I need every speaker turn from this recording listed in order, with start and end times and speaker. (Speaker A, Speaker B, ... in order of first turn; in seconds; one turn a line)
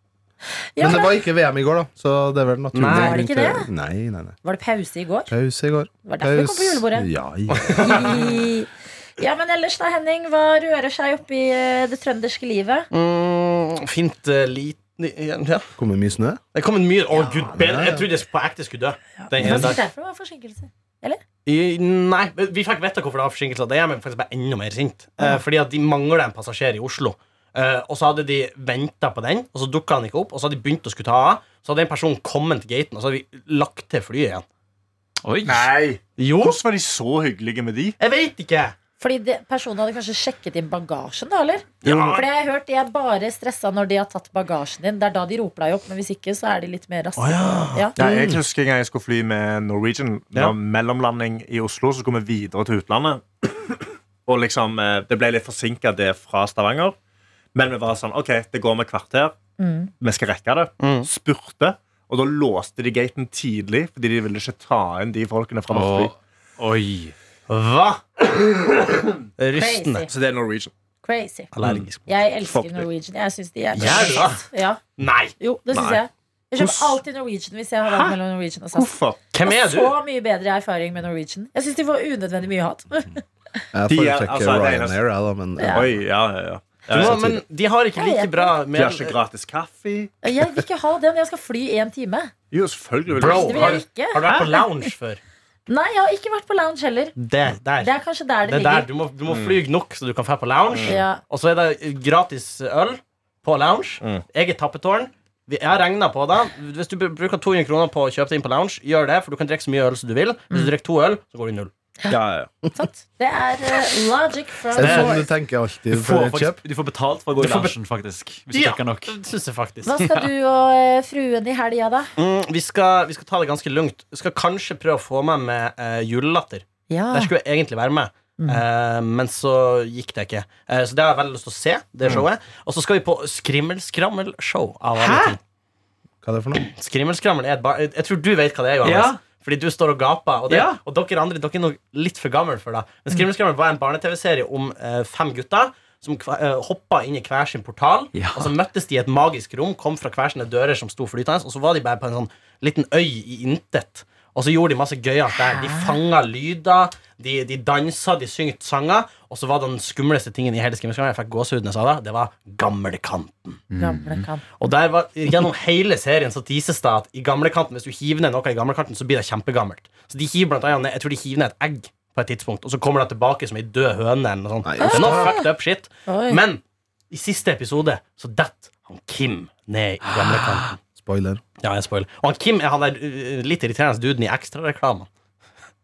Speaker A: 0.5-1.2
Speaker B: 0.8-4.3
Speaker C: 2.7-3.2
Speaker A: 2.9-3.7
Speaker A: 4.4-5.3
Speaker B: 5.3-7.8
Speaker A: 6.0-7.1
Speaker C: 7.5-8.4
Speaker A: 7.8-12.9
Speaker C: 12.9-15.7
Speaker B: 15.8-16.4
Speaker C: 16.5-19.8
Speaker A: 17.1-17.5
Speaker B: 17.5-18.0
Speaker A: 19.2-21.2
Speaker C: 21.4-34.4
Speaker D: 35.2-35.7
Speaker E: 35.5-38.0
Speaker C: 36.2-36.6
Speaker C: 38.0-38.8
Speaker A: 39.0-47.9
Speaker C: 41.8-42.2
Speaker C: 47.2-47.9
Speaker E: 48.0-57.0
Speaker B: 48.0-48.4
Speaker E: 57.5-59.4
Speaker A: 59.6-59.9
Speaker E: 60.0-66.1
Speaker C: 60.8-61.1
Speaker D: 65.7-67.1
Speaker C: 67.5-68.3
Speaker C: 69.4-70.1
Speaker A: 69.5-70.1
Speaker E: 70.1-70.7
Speaker A: 71.0-71.5
Speaker C: 71.5-72.0
Speaker E: 71.6-71.9
Speaker A: 72.0-74.8
Speaker E: 72.4-72.9
Speaker C: 73.7-74.4
Speaker C: 75.0-75.3
Speaker A: 75.4-78.9
Speaker E: 75.7-76.0
Speaker E: 76.6-77.0
Speaker E: 77.9-78.2
Speaker E: 78.7-79.2
Speaker C: 79.3-79.9
Speaker A: 79.4-83.2
Speaker B: 83.7-86.0
Speaker E: 83.9-85.0
Speaker A: 85.6-85.8
Speaker E: 85.7-87.2
Speaker C: 86.9-89.2
Speaker B: 86.9-87.4
Speaker A: 87.9-88.5
Speaker E: 88.7-90.1
Speaker A: 90.2-92.3
Speaker E: 92.5-94.6
Speaker C: 93.1-95.2
Speaker A: 93.2-94.6
Speaker A: 95.7-97.1
Speaker C: 97.2-97.9
Speaker A: 97.8-98.9
Speaker C: 98.4-111.7
Speaker E: 99.3-99.6
Speaker A: 100.8-101.2
Speaker E: 112.1-112.5
Speaker A: 112.7-115.3
Speaker B: 114.7-116.6
Speaker C: 114.8-115.2
Speaker D: 115.9-119.2
Speaker C: 117.4-117.8
Speaker C: 118.5-119.9
Speaker A: 119.8-122.1
Speaker D: 120.0-120.3
Speaker C: 122.2-135.4
Speaker A: 126.9-127.3
Speaker A: 128.4-128.6
Speaker D: 135.0-135.3
Speaker B: 136.2-136.6
Speaker C: 136.5-163.6
Speaker D: 138.8-139.2
Speaker D: 140.5-140.8
Speaker D: 148.1-148.5
Speaker A: 155.4-156.0
Speaker D: 163.7-164.3
Speaker A: 163.8-164.5
Speaker C: 164.5-180.7
Speaker B: 174.6-175.3
Speaker A: 174.8-175.5
Speaker A: 176.1-176.4
Speaker D: 180.0-180.7
Speaker B: 180.9-181.4
Speaker C: 181.6-185.1